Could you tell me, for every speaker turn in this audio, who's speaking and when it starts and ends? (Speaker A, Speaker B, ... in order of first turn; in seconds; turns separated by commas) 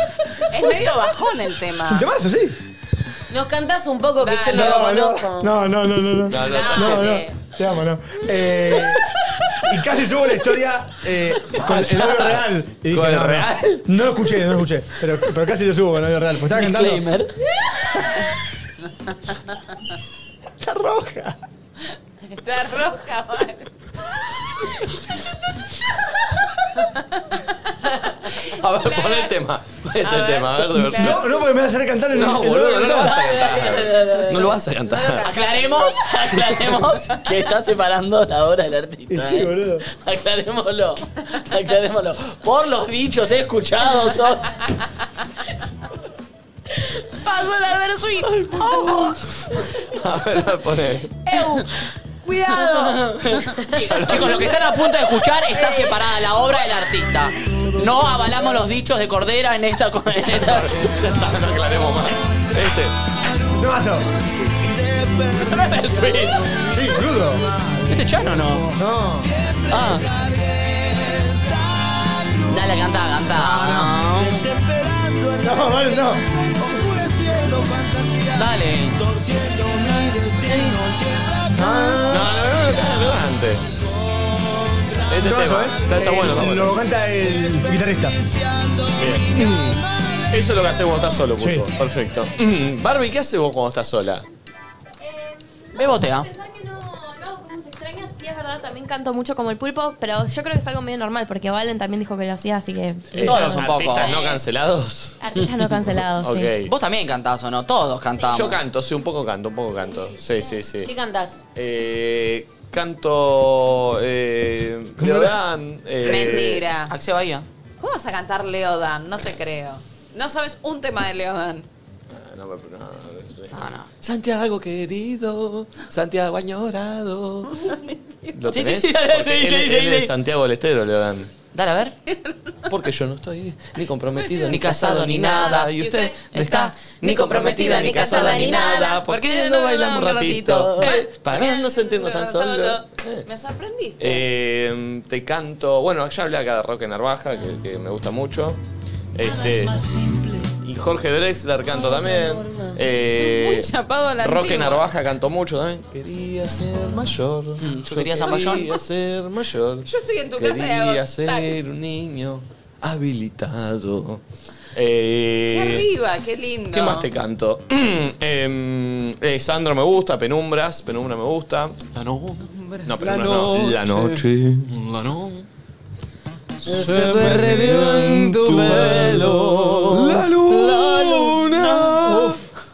Speaker A: 0.5-2.1, Speaker B: 1.8-2.6, Speaker C: 3.3-5.5, Speaker A: 4.2-4.8, Speaker B: 4.5-9.0, Speaker D: 6.3-7.2, Speaker A: 6.4-7.3, Speaker B: 9.7-17.1, Speaker D: 11.6-13.9, Speaker E: 16.5-17.3, Speaker B: 20.6-21.4, Speaker A: 22.3-23.7, Speaker D: 28.4-31.3, Speaker A: 28.8-29.4, Speaker A: 30.0-31.4, Speaker B: 30.9-33.2, Speaker D: 32.1-35.4, Speaker E: 33.2-34.5, Speaker E: 35.2-44.5, Speaker B: 39.1-39.9, Speaker F: 47.2-49.1, Speaker D: 48.2-49.2, Speaker D: 49.8-51.2, Speaker F: 51.3-51.7, Speaker F: 52.3-53.1, Speaker D: 53.8-54.5, Speaker E: 53.9-60.9, Speaker D: 60.3-63.0, Speaker B: 63.5-64.1, Speaker B: 65.2-65.7, Speaker E: 65.3-66.7, Speaker B: 66.5-67.5, Speaker E: 67.9-68.7, Speaker B: 68.7-69.3, Speaker E: 69.7-70.1, Speaker E: 72.4-74.5, Speaker B: 73.4-74.2, Speaker B: 75.3-76.2, Speaker E: 78.3-79.2, Speaker E: 80.1-80.9, Speaker B: 81.5-82.3, Speaker D: 82.1-83.7, Speaker D: 85.1-86.8, Speaker B: 85.2-88.2, Speaker D: 88.9-89.7, Speaker B: 89.3-89.8, Speaker D: 90.3-94.2, Speaker B: 91.4-91.7, Speaker E: 95.7-96.3, Speaker G: 95.8-103.7, Speaker D: 103.1-105.2, Speaker E: 103.2-104.1, Speaker A: 104.0-104.4, Speaker G: 105.2-106.5, Speaker E: 105.4-105.6, Speaker D: 106.2-106.7, Speaker E: 106.6-108.6, Speaker D: 108.3-110.9, Speaker C: 110.8-111.4, Speaker D: 111.5-116.7, Speaker B: 115.0-115.3, Speaker A: 116.0-116.9, Speaker E: 116.9-117.5, Speaker A: 117.8-121.7, Speaker D: 122.1-127.6, Speaker E: 123.5-123.9, Speaker D: 128.3-131.3, Speaker E: 128.5-130.1, Speaker E: 131.5-131.9, Speaker D: 132.7-143.2, Speaker A: 134.2-134.5, Speaker E: 134.4-136.9, Speaker A: 135.3-136.2, Speaker C: 137.0-139.0, Speaker E: 137.4-138.4, Speaker A: 137.6-144.2, Speaker E: 139.1-139.3, Speaker E: 140.0-140.4, Speaker C: 140.6-140.9, Speaker D: 144.0-148.6, Speaker D: 149.2-149.9, Speaker D: 150.6-153.7, Speaker C: 151.7-152.8, Speaker A: 153.0-154.9, Speaker D: 154.2-164.2, Speaker E: 157.6-158.7, Speaker A: 158.3-158.6, Speaker A: 159.8-161.6, Speaker D: 164.7-165.8, Speaker A: 165.5-167.1, Speaker D: 166.7-175.3, Speaker E: 173.0-174.0, Speaker D: 176.7-182.4, Speaker E: 176.7-180.2, Speaker E: 180.9-181.2